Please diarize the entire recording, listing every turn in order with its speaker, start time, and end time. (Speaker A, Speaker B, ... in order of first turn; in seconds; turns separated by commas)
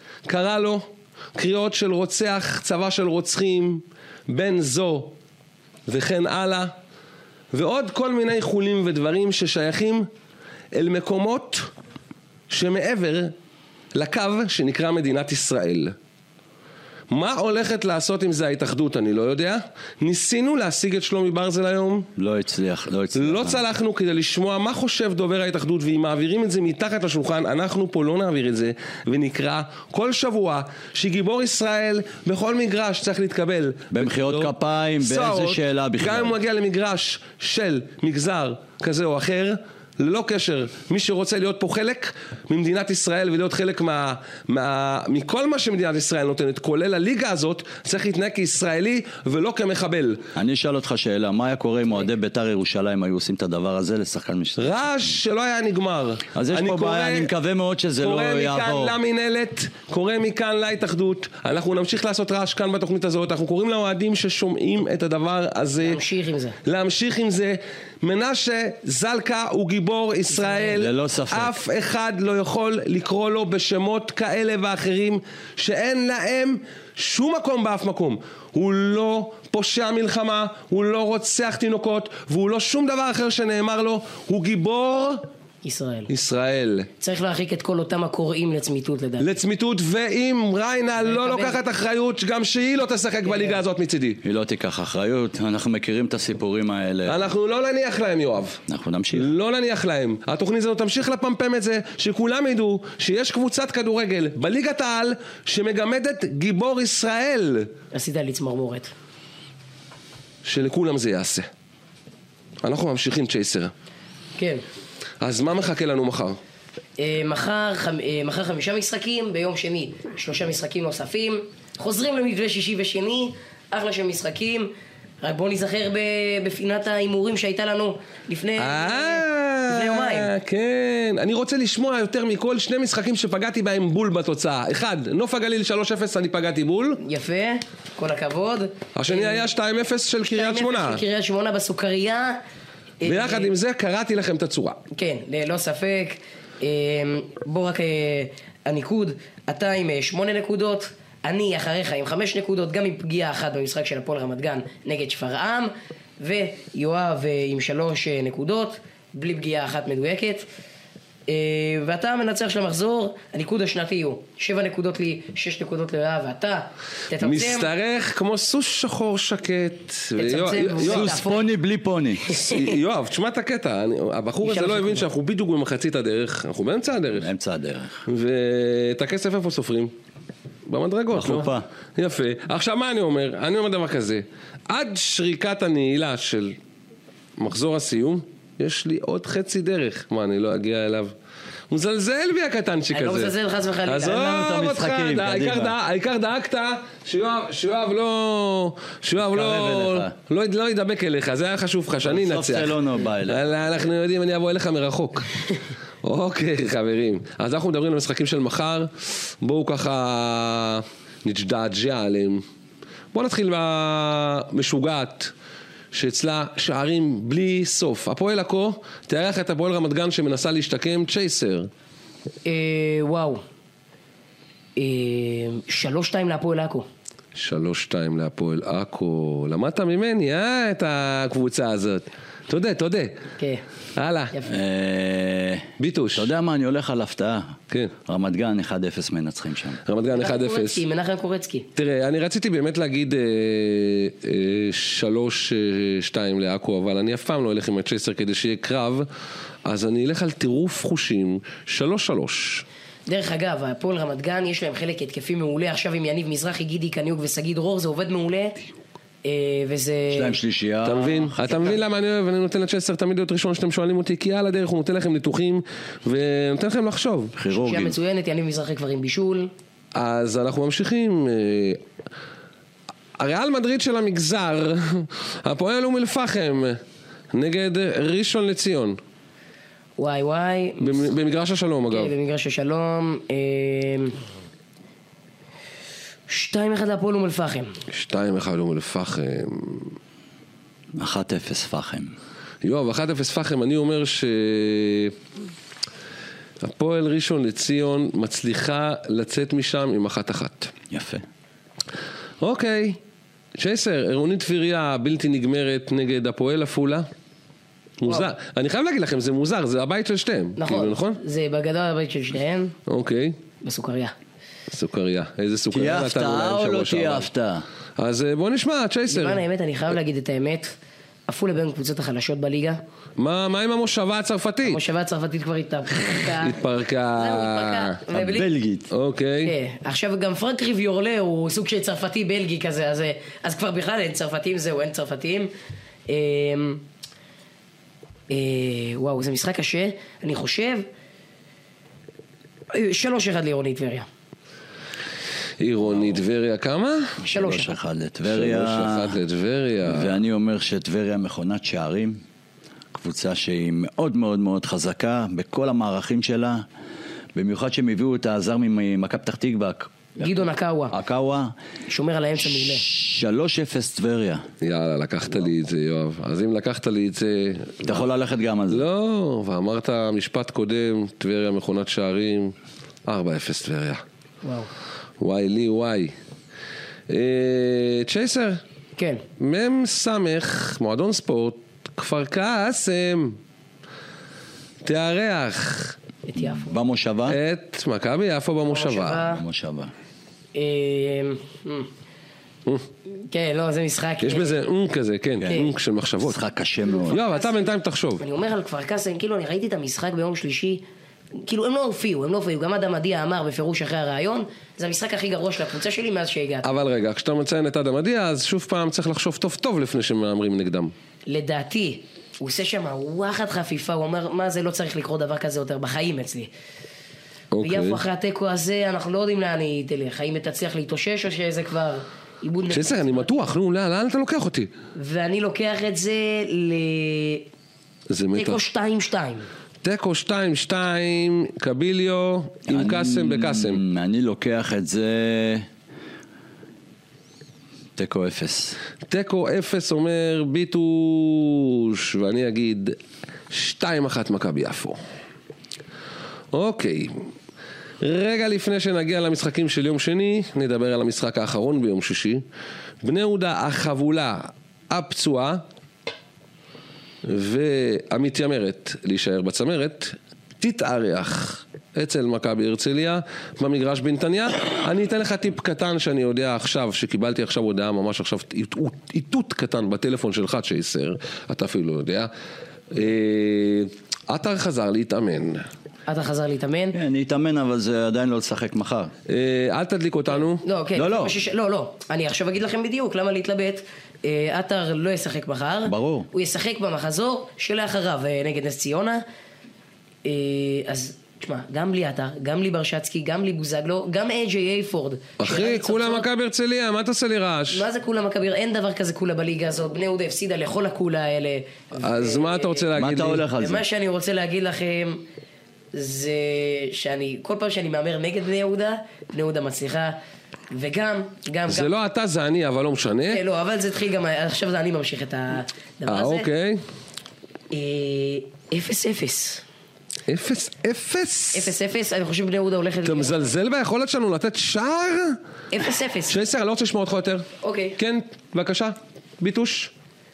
Speaker A: 0.2-5.1, Speaker A: 5.9-6.7, Speaker A: 7.5-10.1, Speaker A: 10.7-11.7, Speaker A: 12.5-13.3, Speaker A: 13.9-15.9, Speaker A: 17.1-22.1, Speaker B: 22.2-23.6, Speaker A: 23.1-50.2, Speaker B: 33.9-36.3, Speaker B: 50.3-54.9, Speaker A: 54.6-57.3, Speaker B: 56.3-58.9, Speaker A: 58.0-66.0, Speaker C: 65.8-66.6, Speaker A: 66.6-85.2, Speaker C: 70.3-70.7, Speaker B: 70.7-71.5, Speaker C: 85.6-86.1, Speaker A: 86.1-86.9, Speaker C: 87.0-89.3, Speaker A: 89.2-94.2, Speaker C: 91.0-91.6, Speaker C: 93.2-93.6, Speaker B: 94.2-97.3, Speaker A: 97.1-98.6, Speaker B: 98.7-99.3, Speaker A: 99.1-107.7, Speaker C: 107.9-108.9, Speaker A: 110.4-111.5, Speaker A: 112.6-113.7, Speaker C: 114.4-114.6, Speaker A: 115.2-116.4, Speaker C: 117.0-124.7, Speaker C: 125.2-130.3, Speaker A: 128.6-137.0, Speaker C: 137.0-139.4, Speaker A: 138.9-141.0, Speaker C: 140.3-142.4, Speaker C: 143.0-143.5, Speaker A: 143.0-144.8, Speaker C: 144.9-160.4, Speaker C: 161.3-167.7, Speaker A: 167.2-171.2, Speaker C: 170.2-171.4, Speaker B: 170.8-172.3, Speaker C: 172.3-172.7, Speaker A: 172.3-177.3, Speaker C: 174.4-175.1, Speaker B: 177.2-178.0, Speaker A: 178.1-179.9, Speaker A: 180.7-186.6, Speaker B: 181.1-181.6, Speaker A: 187.4-191.1, Speaker A: 191.7-193.3, Speaker C: 192.9-194.5, Speaker A: 193.8-205.5, Speaker B: 194.2-195.7, Speaker B: 199.2-200.1, Speaker B: 202.0-203.4, Speaker A: 206.0-212.4, Speaker A: 213.1-215.3, Speaker A: 215.9-221.7, Speaker C: 222.4-223.4, Speaker C: 224.8-226.8, Speaker A: 227.3-233.2, Speaker C: 233.4-233.6, Speaker A: 233.9-234.3, Speaker C: 234.3-234.6, Speaker B: 234.4-239.8, Speaker A: 235.8-236.3, Speaker A: 239.8-240.8, Speaker C: 240.1-241.7, Speaker A: 241.8-249.1, Speaker A: 249.6-252.6, Speaker C: 253.1-258.6, Speaker C: 259.2-260.4, Speaker B: 260.1-261.7, Speaker A: 260.8-267.3, Speaker B: 267.4-267.9, Speaker C: 267.5-269.5, Speaker A: 269.9-271.8, Speaker A: 273.2-276.8, Speaker A: 277.3-279.0, Speaker C: 280.0-281.1, Speaker A: 280.8-282.1, Speaker C: 281.9-284.2, Speaker C: 286.3-287.8, Speaker A: 287.9-289.9, Speaker B: 291.0-292.1, Speaker A: 292.6-295.1, Speaker A: 296.6-300.7, Speaker B: 300.9-301.2, Speaker A: 302.4-303.0, Speaker A: 303.6-307.1, Speaker A: 308.0-311.2, Speaker C: 310.6-312.8, Speaker A: 312.9-313.4, Speaker C: 313.6-314.1, Speaker A: 314.7-317.3, Speaker B: 315.7-317.6, Speaker A: 318.0-319.4, Speaker C: 319.1-320.7, Speaker C: 321.3-322.8, Speaker A: 323.2-324.8, Speaker C: 324.6-326.6, Speaker A: 326.4-328.0, Speaker C: 327.1-328.5, Speaker B: 328.1-328.9, Speaker A: 328.9-329.5, Speaker C: 329.4-335.5, Speaker C: 336.1-336.8, Speaker C: 338.3-340.9, Speaker C: 342.7-344.1, Speaker A: 345.6-347.2, Speaker B: 345.9-346.2, Speaker B: 347.2-349.2, Speaker C: 347.3-347.7, Speaker A: 348.2-350.1, Speaker B: 349.8-352.2, Speaker B: 352.9-356.6, Speaker B: 357.3-360.4, Speaker C: 360.2-360.9, Speaker B: 360.9-361.5, Speaker C: 361.9-362.9, Speaker B: 362.5-364.4, Speaker A: 364.6-368.0, Speaker B: 367.8-368.8, Speaker A: 368.7-372.5, Speaker A: 373.1-374.0, Speaker C: 374.4-374.7, Speaker A: 375.2-376.1, Speaker A: 377.1-378.6, Speaker C: 379.0-379.2, Speaker A: 379.4-383.4, Speaker A: 384.8-385.9, Speaker C: 386.3-386.7, Speaker B: 386.4-387.4, Speaker A: 387.3-389.2, Speaker C: 388.6-389.4, Speaker B: 389.2-389.9, Speaker C: 390.5-391.9, Speaker C: 393.1-394.6, Speaker A: 394.2-396.4, Speaker B: 396.2-397.2, Speaker C: 396.8-400.8, Speaker A: 397.1-398.2, Speaker C: 401.4-406.7, Speaker A: 406.6-410.9, Speaker C: 411.3-416.5, Speaker A: 417.5-418.0, Speaker C: 417.6-423.4, Speaker A: 422.7-424.7, Speaker C: 424.9-427.4, Speaker A: 428.1-428.6, Speaker C: 428.3-429.5, Speaker A: 429.8-433.8, Speaker B: 432.7-435.6, Speaker B: 438.0-438.8, Speaker A: 439.1-442.9, Speaker A: 443.5-445.0, Speaker A: 446.5-447.2, Speaker A: 448.0-452.4, Speaker A: 453.0-455.6, Speaker A: 457.2-472.3, Speaker A: 472.9-475.6, Speaker C: 476.1-476.9, Speaker B: 476.9-479.1, Speaker A: 479.3-480.6, Speaker C: 480.6-489.2, Speaker B: 480.9-481.4, Speaker B: 485.8-486.3, Speaker C: 490.2-496.3, Speaker A: 495.4-497.9, Speaker C: 497.7-502.9, Speaker A: 502.0-503.4, Speaker B: 502.9-503.8, Speaker C: 503.6-505.2, Speaker C: 505.9-510.2, Speaker C: 510.7-511.9, Speaker A: 511.7-513.4, Speaker C: 513.3-516.5, Speaker A: 516.1-516.8, Speaker C: 517.7-519.6, Speaker A: 520.3-521.7, Speaker C: 521.5-523.3, Speaker A: 523.0-525.4, Speaker C: 525.7-526.4, Speaker A: 526.3-527.5, Speaker C: 527.6-528.0, Speaker A: 528.0-529.9